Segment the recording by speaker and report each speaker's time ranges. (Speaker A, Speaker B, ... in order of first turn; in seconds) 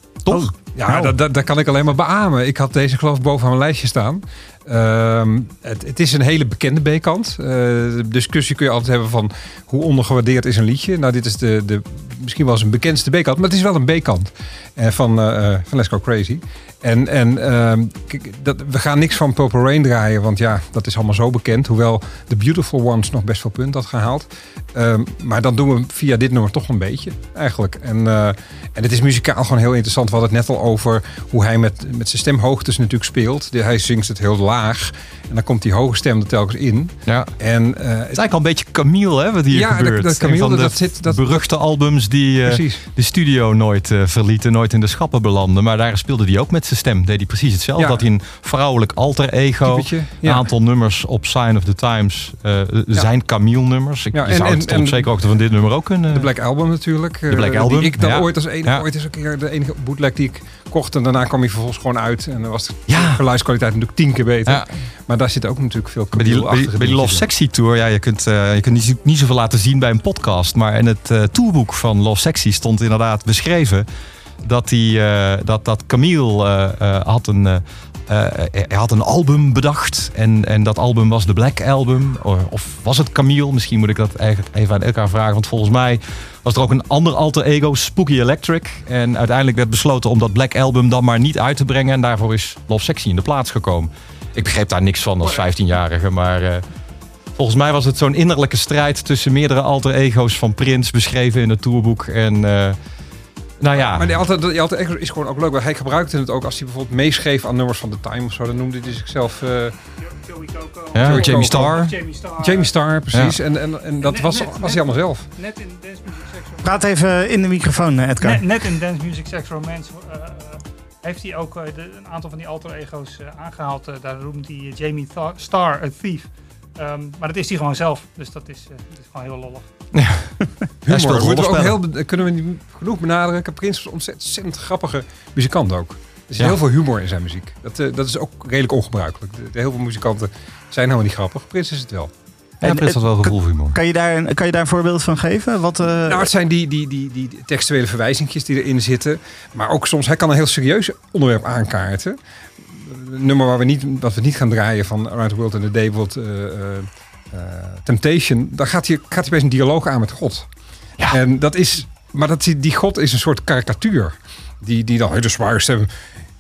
Speaker A: 0.3-38.2, 39.5-41.4, 42.5-42.8, 47.8-48.0, 49.6-50.5, 54.1-55.1, 56.1-67.3, 103.8-109.8, 111.0-115.3, 130.9-142.1, 146.1-152.2, 152.7-160.5, 161.1-165.9
Speaker B: 0.3-1.1, 116.6-118.5, 142.6-146.3
Speaker C: 38.1-56.3, 57.3-58.9, 62.9-63.2, 66.2-73.9, 74.4-96.6, 97.3-102.8, 103.6-104.1, 111.0-111.9, 129.9-130.3, 130.9-131.8, 142.6-143.8
Speaker D: 110.0-112.7, 114.0-116.7, 118.2-129.7